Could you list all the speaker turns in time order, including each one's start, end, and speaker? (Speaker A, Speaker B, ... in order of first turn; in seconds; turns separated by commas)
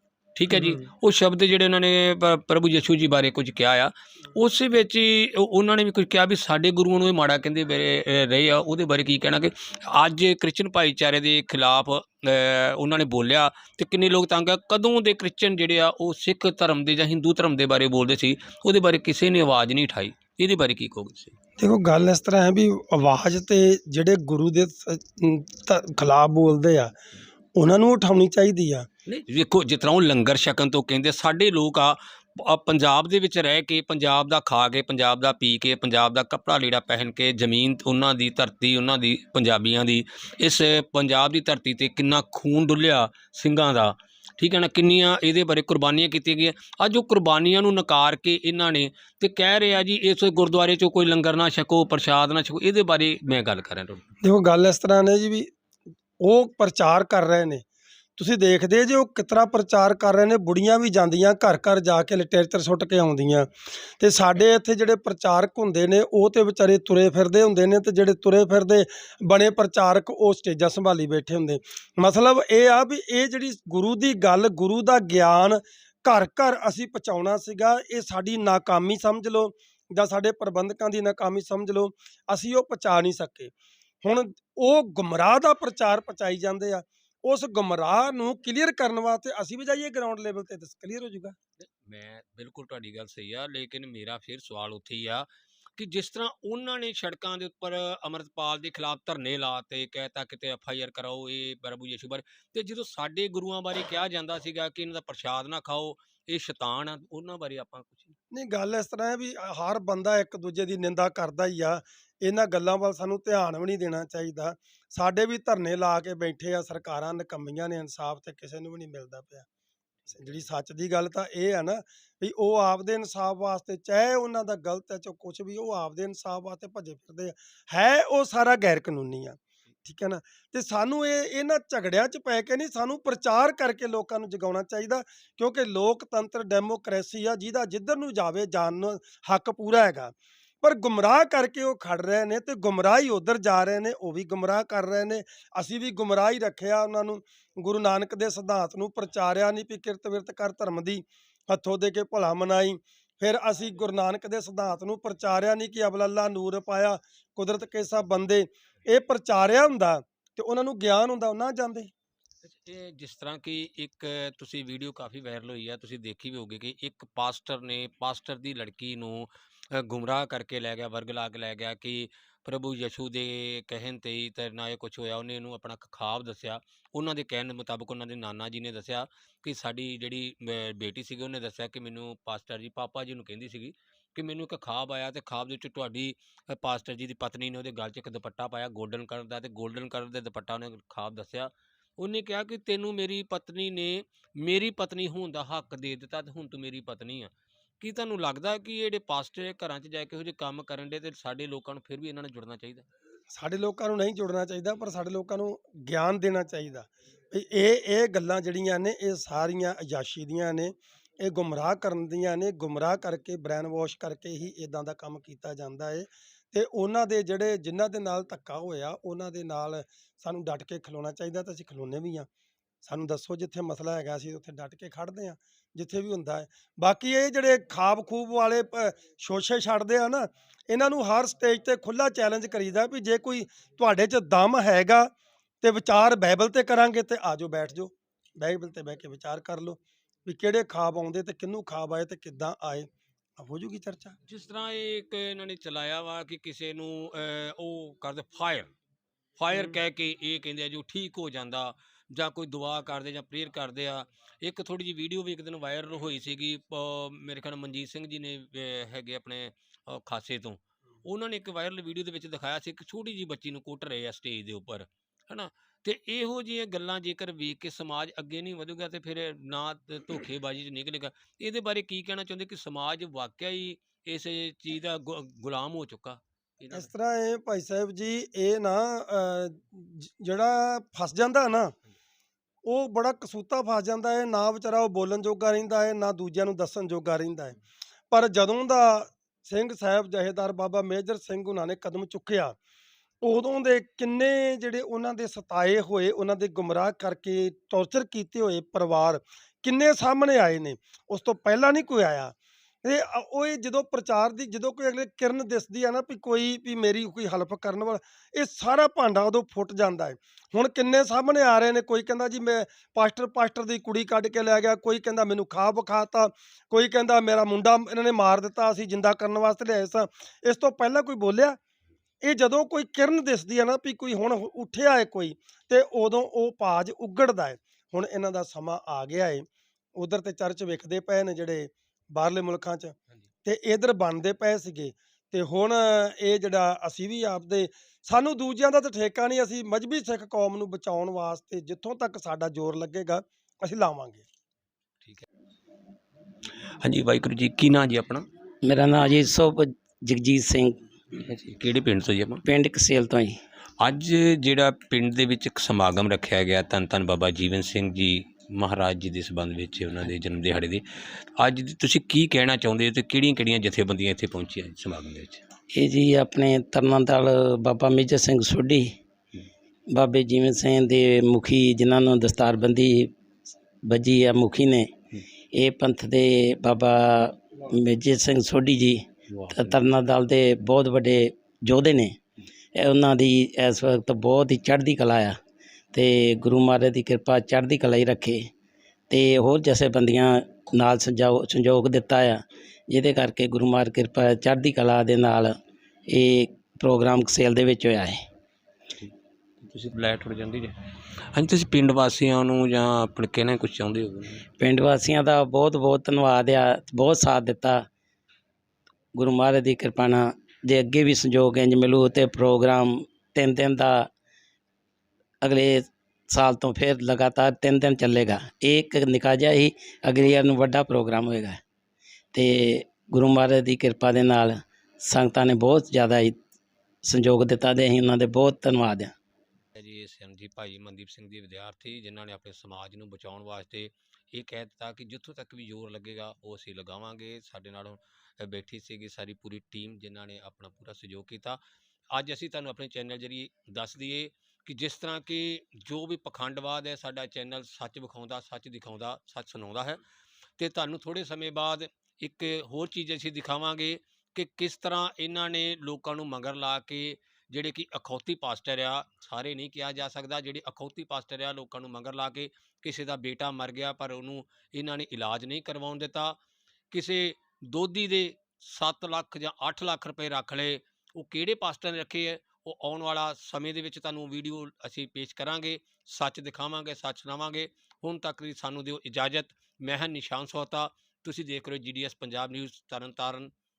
Speaker A: 0.3-21.3, Speaker B: 0.5-0.8, Speaker B: 21.6-26.9, Speaker B: 27.6-28.9, Speaker A: 29.1-54.0, Speaker B: 54.2-55.5, Speaker B: 56.2-57.6, Speaker B: 58.2-63.5, Speaker B: 64.0-91.3, Speaker A: 91.8-108.1, Speaker B: 108.3-119.5, Speaker B: 120.1-161.9, Speaker A: 162.4-202.8, Speaker B: 203.3-222.3, Speaker B: 222.8-244.2, Speaker A: 244.3-248.7, Speaker A: 249.4-276.9, Speaker B: 276.7-281.7, Speaker B: 282.6-287.6, Speaker B: 288.1-292.6, Speaker B: 293.2-321.6, Speaker B: 322.2-344.2, Speaker A: 346.8-348.2, Speaker C: 348.6-350.8, Speaker A: 351.1-352.4, Speaker C: 352.5-353.4, Speaker A: 353.8-365.4, Speaker C: 365.7-368.9, Speaker C: 369.9-373.1, Speaker C: 373.9-374.9, Speaker C: 375.6-379.0, Speaker A: 379.3-379.8, Speaker C: 379.7-382.1, Speaker C: 382.8-385.4, Speaker C: 385.9-388.4, Speaker C: 389.1-395.5, Speaker C: 396.1-398.2, Speaker A: 399.6-400.7, Speaker A: 401.3-404.4, Speaker C: 404.6-407.8, Speaker C: 409.1-414.1, Speaker C: 415.4-421.6, Speaker C: 422.3-426.4, Speaker C: 427.1-429.1, Speaker A: 429.8-441.6, Speaker A: 442.1-450.0, Speaker A: 450.6-466.4, Speaker A: 466.9-483.5